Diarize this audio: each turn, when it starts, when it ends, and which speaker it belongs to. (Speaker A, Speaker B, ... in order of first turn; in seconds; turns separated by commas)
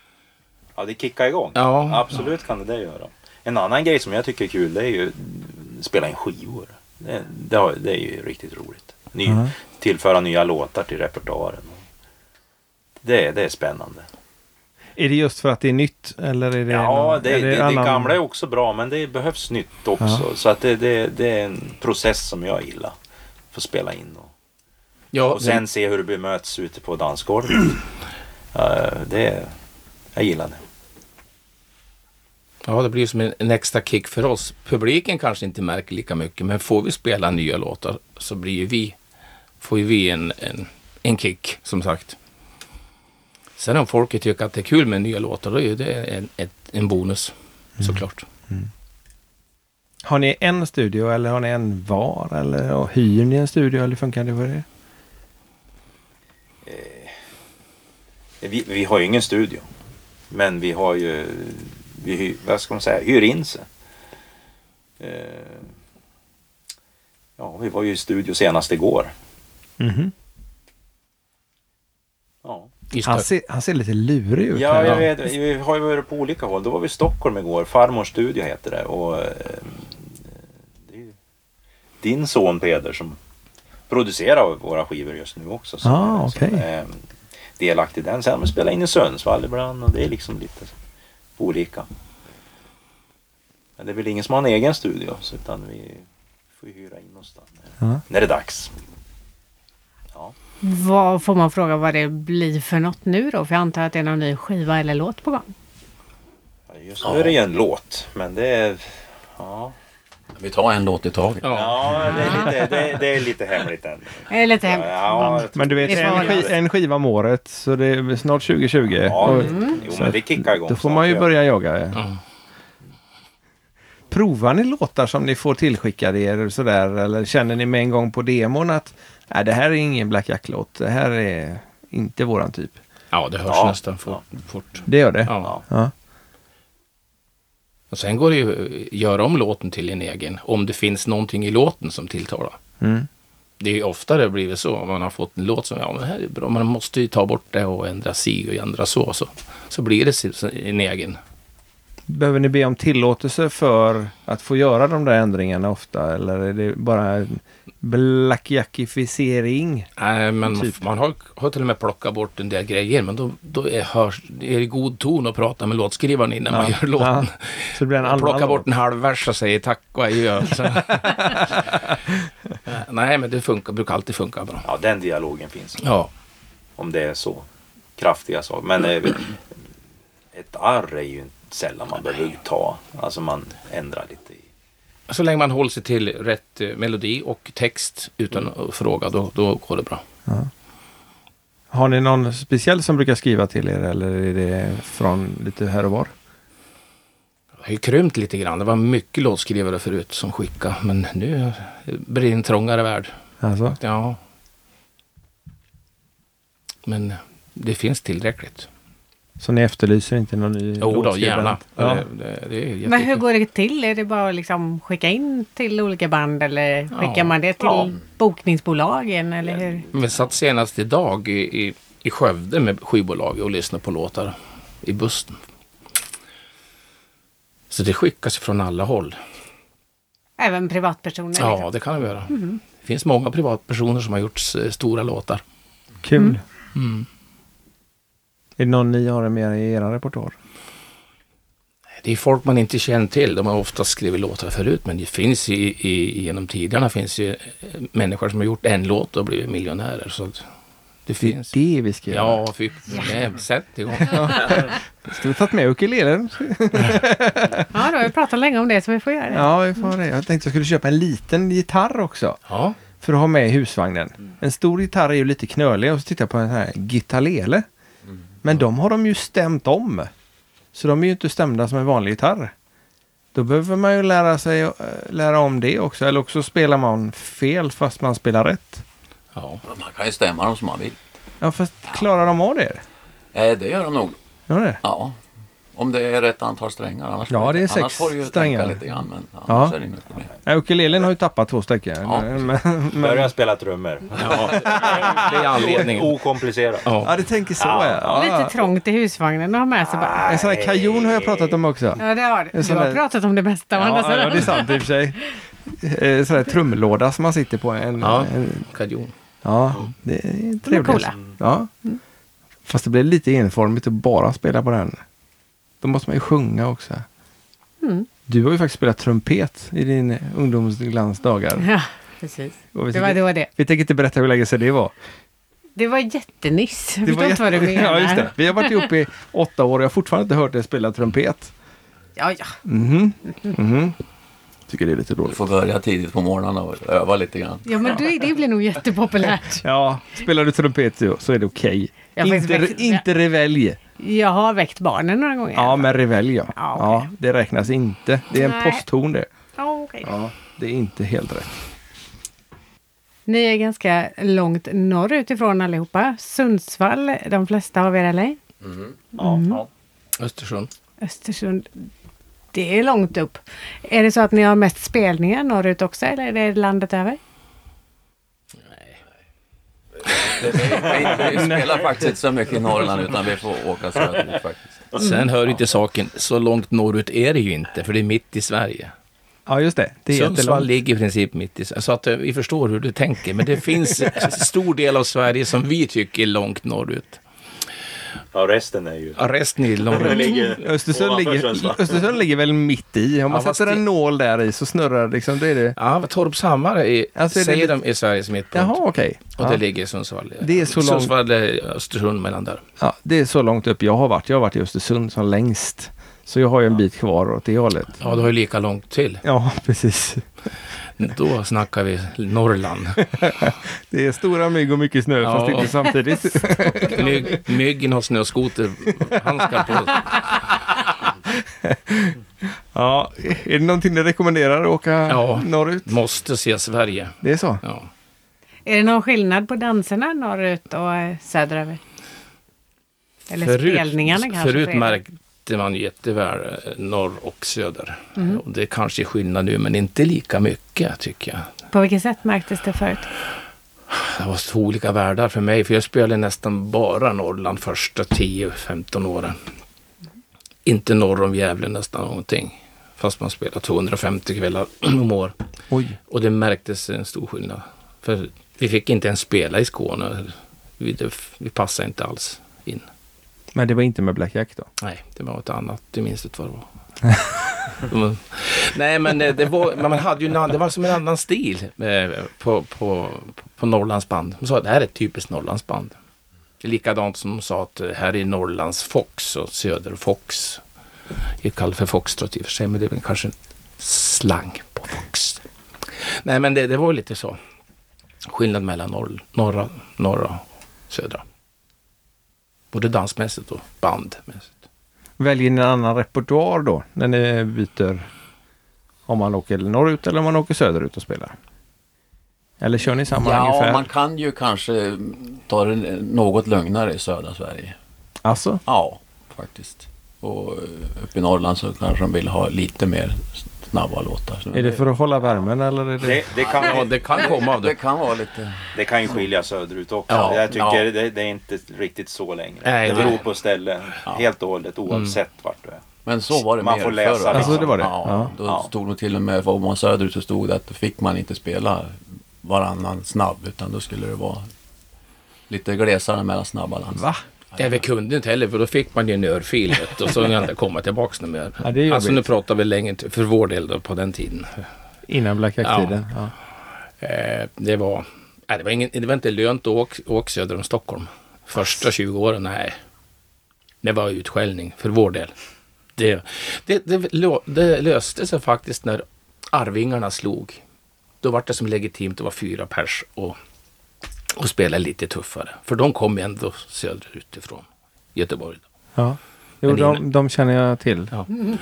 Speaker A: 0.8-11.8, Speaker B: 1.5-2.1, Speaker C: 9.2-9.5, Speaker A: 13.0-14.1, Speaker C: 15.0-18.2, Speaker A: 16.7-22.9, Speaker A: 23.5-24.3, Speaker B: 25.1-25.6, Speaker A: 25.3-27.8, Speaker A: 28.5-29.5, Speaker A: 30.1-30.6, Speaker B: 32.6-39.0, Speaker B: 39.6-42.1, Speaker B: 43.6-48.2, Speaker C: 47.8-48.7, Speaker C: 50.0-54.6, Speaker A: 56.6-57.1, Speaker A: 58.4-59.6, Speaker A: 60.3-63.7, Speaker A: 65.0-65.7, Speaker A: 67.4-69.1, Speaker C: 69.8-70.1, Speaker A: 72.4-72.7, Speaker B: 72.9-73.3, Speaker C: 73.0-75.1, Speaker A: 74.5-81.2, Speaker B: 74.8-75.1, Speaker A: 82.0-83.2, Speaker A: 83.9-87.0, Speaker C: 85.8-86.7, Speaker A: 87.6-90.7, Speaker A: 91.4-91.9, Speaker A: 93.8-96.0, Speaker A: 96.6-98.7, Speaker D: 100.6-105.5, Speaker A: 106.7-109.7, Speaker E: 107.0-107.3, Speaker E: 110.4-112.2, Speaker B: 111.4-112.4, Speaker A: 111.5-116.5, Speaker D: 112.1-112.5, Speaker D: 114.3-116.5, Speaker C: 115.2-122.0, Speaker A: 119.0-121.3, Speaker D: 119.3-119.8, Speaker C: 124.1-132.8, Speaker B: 133.1-135.6, Speaker A: 133.5-134.2, Speaker C: 134.9-135.9, Speaker B: 137.9-142.6, Speaker C: 142.8-143.1, Speaker B: 143.6-151.2, Speaker C: 152.1-159.9, Speaker B: 160.0-171.9, Speaker C: 160.4-160.7, Speaker C: 166.5-168.7, Speaker B: 172.7-174.6, Speaker A: 174.6-175.8, Speaker B: 175.8-176.1, Speaker A: 176.8-177.4, Speaker A: 178.0-179.4, Speaker A: 180.3-184.4, Speaker B: 185.1-190.0, Speaker C: 191.7-196.1, Speaker B: 197.6-203.1, Speaker C: 203.4-203.8, Speaker B: 203.8-204.2, Speaker B: 206.8-208.7, Speaker C: 209.4-212.0, Speaker B: 210.8-213.2, Speaker D: 212.8-219.8, Speaker B: 216.9-217.4, Speaker A: 217.6-217.9, Speaker A: 219.5-220.2, Speaker B: 219.9-225.4, Speaker B: 227.7-229.2, Speaker D: 230.4-231.7, Speaker B: 231.3-235.4, Speaker D: 232.3-232.6, Speaker C: 236.0-236.4, Speaker B: 236.7-237.1, Speaker C: 238.6-240.3, Speaker B: 242.0-250.4, Speaker B: 251.1-251.6, Speaker C: 251.2-252.4, Speaker B: 252.1-254.7, Speaker C: 254.1-257.9, Speaker D: 257.7-259.9, Speaker C: 259.3-262.4, Speaker B: 262.4-262.8, Speaker C: 263.0-267.6, Speaker C: 268.4-270.1, Speaker C: 270.7-272.5, Speaker C: 273.3-278.8, Speaker B: 279.3-279.6, Speaker E: 279.6-281.0, Speaker C: 281.4-282.8, Speaker E: 283.3-284.1, Speaker C: 284.5-284.8, Speaker E: 284.8-285.2, Speaker E: 285.7-290.3, Speaker C: 287.3-288.8, Speaker C: 289.5-289.8, Speaker C: 290.4-293.3, Speaker E: 292.0-292.5, Speaker A: 292.9-296.9, Speaker B: 294.2-296.2, Speaker C: 294.6-295.2, Speaker B: 296.8-297.1, Speaker C: 297.0-298.6, Speaker A: 297.6-298.3, Speaker D: 298.1-300.3, Speaker A: 299.8-301.6, Speaker C: 300.2-303.0, Speaker D: 302.0-304.8, Speaker C: 303.8-308.6, Speaker B: 308.0-309.1, Speaker C: 309.4-311.7, Speaker D: 310.6-311.2, Speaker A: 311.0-311.3, Speaker C: 312.6-315.0, Speaker C: 315.8-317.1, Speaker D: 317.8-318.1, Speaker C: 318.3-321.7, Speaker D: 321.6-323.5, Speaker C: 322.7-324.9, Speaker D: 325.8-328.9, Speaker C: 327.0-331.5, Speaker D: 332.1-332.6, Speaker C: 332.6-334.0, Speaker C: 334.7-335.4, Speaker E: 335.2-337.9, Speaker D: 337.6-339.6, Speaker C: 339.6-343.8, Speaker D: 342.1-343.0, Speaker D: 344.0-345.9, Speaker C: 345.5-349.3, Speaker D: 346.5-347.1, Speaker D: 348.3-348.8, Speaker D: 349.6-350.1, Speaker C: 350.0-351.6, Speaker D: 353.3-358.4, Speaker D: 359.1-359.6, Speaker A: 359.2-359.6, Speaker B: 360.2-360.7, Speaker D: 361.0-361.8, Speaker D: 362.5-367.2, Speaker B: 368.6-369.0, Speaker E: 370.1-374.9, Speaker C: 371.2-371.9, Speaker B: 374.9-378.9, Speaker C: 379.5-380.7, Speaker B: 380.1-387.2, Speaker A: 388.3-389.2, Speaker B: 389.2-390.6, Speaker A: 389.8-392.1, Speaker C: 390.6-395.8, Speaker B: 393.3-393.8, Speaker B: 395.7-398.8, Speaker C: 397.1-397.7, Speaker C: 398.5-399.6, Speaker B: 399.3-402.6, Speaker C: 400.4-401.1, Speaker C: 402.8-408.0, Speaker B: 408.0-409.2, Speaker C: 409.2-410.2, Speaker B: 411.0-413.0, Speaker C: 413.2-417.3, Speaker B: 415.2-415.8, Speaker B: 416.8-420.6, Speaker C: 421.6-422.1, Speaker C: 422.7-425.9, Speaker B: 425.1-427.9, Speaker C: 427.2-427.6, Speaker D: 428.6-431.8, Speaker D: 433.3-435.0, Speaker B: 433.4-441.5, Speaker D: 441.7-443.1, Speaker B: 443.9-449.4, Speaker B: 450.6-455.4, Speaker C: 455.7-456.0, Speaker B: 456.1-462.9, Speaker C: 463.5-464.7, Speaker B: 464.8-466.7, Speaker B: 467.8-476.0, Speaker B: 476.6-480.6, Speaker B: 481.4-485.4, Speaker B: 486.2-487.4, Speaker B: 488.3-491.2, Speaker B: 492.7-494.6, Speaker C: 495.2-498.1, Speaker C: 499.1-501.3, Speaker C: 502.6-503.9, Speaker E: 503.1-507.8, Speaker C: 508.2-508.6, Speaker E: 508.6-514.8, Speaker C: 514.5-516.2, Speaker A: 516.0-517.4, Speaker E: 516.4-519.1, Speaker B: 516.5-517.8, Speaker A: 518.7-525.8, Speaker B: 520.1-520.8, Speaker E: 520.1-520.8, Speaker B: 522.6-523.2, Speaker B: 524.9-525.2, Speaker E: 526.0-534.5, Speaker A: 526.3-528.7, Speaker C: 527.3-528.3, Speaker E: 535.5-537.8, Speaker C: 536.9-537.2, Speaker B: 537.6-544.6, Speaker C: 541.6-542.3, Speaker C: 545.1-546.3, Speaker B: 545.6-546.0, Speaker B: 547.0-552.8, Speaker B: 553.8-555.3, Speaker B: 556.0-560.6, Speaker B: 561.2-563.4, Speaker B: 564.3-568.6, Speaker C: 569.0-571.1, Speaker B: 569.6-570.0